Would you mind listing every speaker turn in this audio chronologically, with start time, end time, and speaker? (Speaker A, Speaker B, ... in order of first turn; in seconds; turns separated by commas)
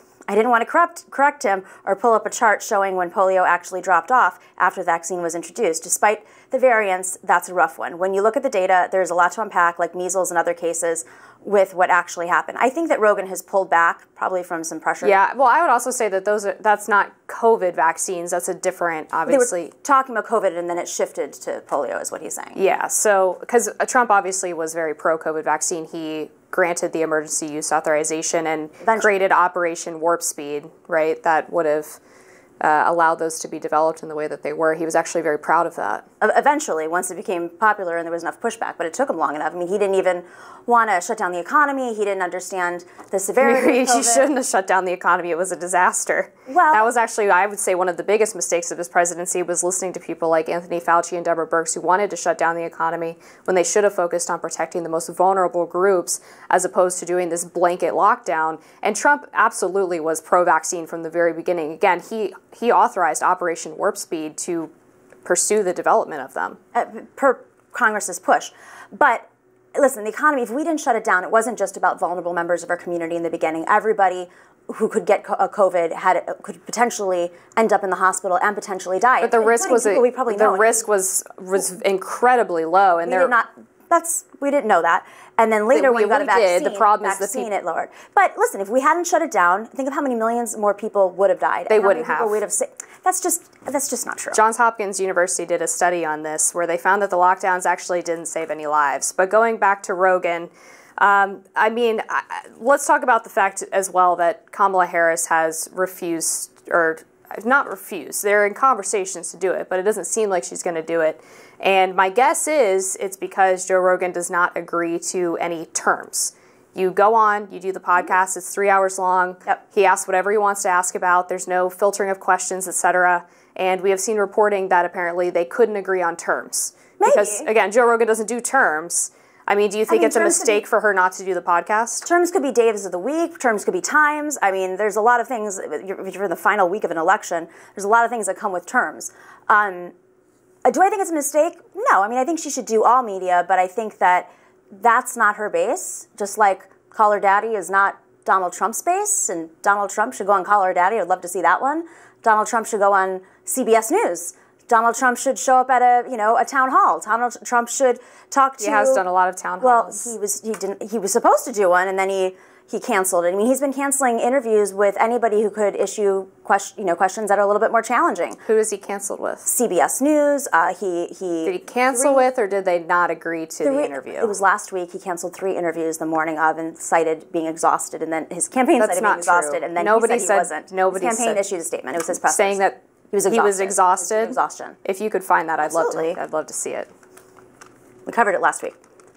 Speaker A: 0.3-15.2, Speaker B: 15.0-19.7, Speaker A: 19.3-22.6, Speaker B: 22.5-32.0, Speaker A: 28.8-29.1, Speaker B: 32.6-36.0, Speaker A: 36.2-44.3, Speaker B: 43.4-64.7, Speaker A: 46.5-46.9, Speaker B: 65.2-66.6, Speaker A: 66.7-80.8, Speaker B: 79.2-83.3, Speaker A: 83.0-94.4, Speaker B: 85.7-87.5, Speaker B: 91.7-92.4, Speaker B: 94.3-132.1, Speaker A: 127.0-127.5, Speaker A: 129.9-130.6, Speaker A: 132.0-139.9, Speaker A: 140.6-159.0, Speaker B: 158.6-160.1, Speaker A: 159.6-168.4, Speaker B: 168.4-169.4, Speaker A: 169.4-172.2, Speaker B: 171.4-174.3, Speaker A: 173.6-184.8, Speaker B: 178.8-181.4, Speaker B: 182.2-186.9, Speaker A: 185.6-186.2, Speaker A: 188.1-188.8